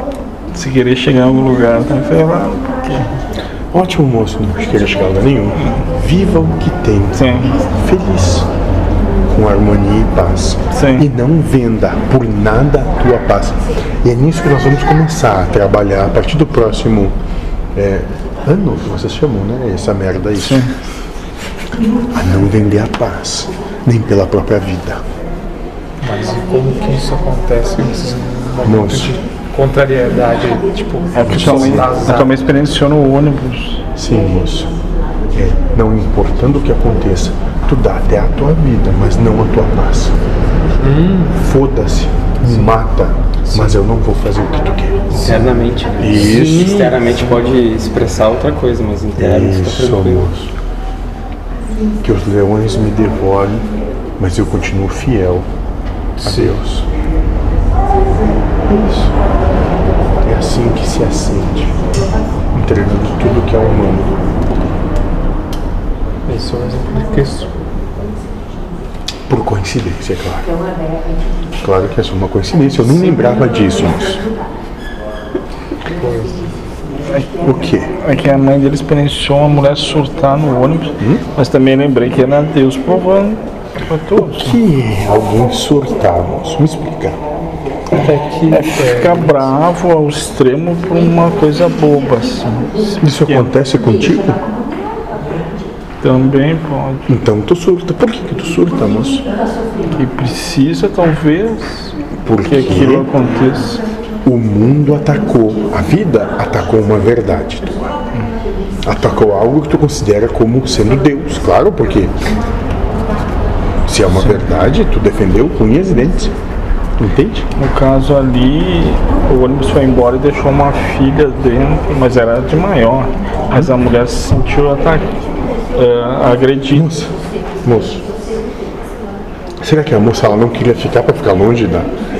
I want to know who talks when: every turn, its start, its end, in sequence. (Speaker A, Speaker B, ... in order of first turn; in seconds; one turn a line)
Speaker A: 0.5-3.1
Speaker B: 3.7-8.5
Speaker A: 7.1-7.5
Speaker B: 9.3-17.1
Speaker A: 10.7-11.1
Speaker B: 17.7-20.7
Speaker A: 20.4-20.7
Speaker B: 22.1-25.0
Speaker C: 26.0-32.4
Speaker B: 28.6-29.1
Speaker A: 31.1-33.8
Speaker B: 31.2-32.0
Speaker B: 34.0-34.7
Speaker B: 35.3-40.1
Speaker C: 40.8-41.3
Speaker B: 41.3-45.4
Speaker C: 42.4-42.8
Speaker C: 43.5-43.8
Speaker D: 45.2-50.3
Speaker B: 46.0-46.9
Speaker C: 46.2-46.9
Speaker B: 49.1-50.5
Speaker B: 52.0-53.6
Speaker B: 54.2-55.5
Speaker B: 56.2-56.9
Speaker C: 56.2-56.5
Speaker B: 58.7-59.1
Speaker B: 60.2-61.8
Speaker B: 62.5-64.1
Speaker C: 66.2-67.5
Speaker B: 69.3-70.5
Speaker B: 71.6-74.2
Speaker C: 75.9-76.5
Speaker B: 77.4-77.9
Speaker A: 77.9-84.6
Speaker B: 84.2-87.2
Speaker C: 87.9-89.5
Speaker A: 88.5-93.5
Speaker B: 93.0-94.4
Speaker A: 96.0-97.1
Speaker B: 97.1-99.2
Speaker A: 99.9-103.8
Speaker B: 102.2-103.2
Speaker B: 104.2-107.7
Speaker B: 108.8-112.1
Speaker B: 113.8-116.3
Speaker A: 114.2-114.5
Speaker B: 117.0-117.5
Speaker A: 117.5-125.2
Speaker A: 125.7-126.8
Speaker B: 126.7-128.0
Speaker B: 129.6-131.9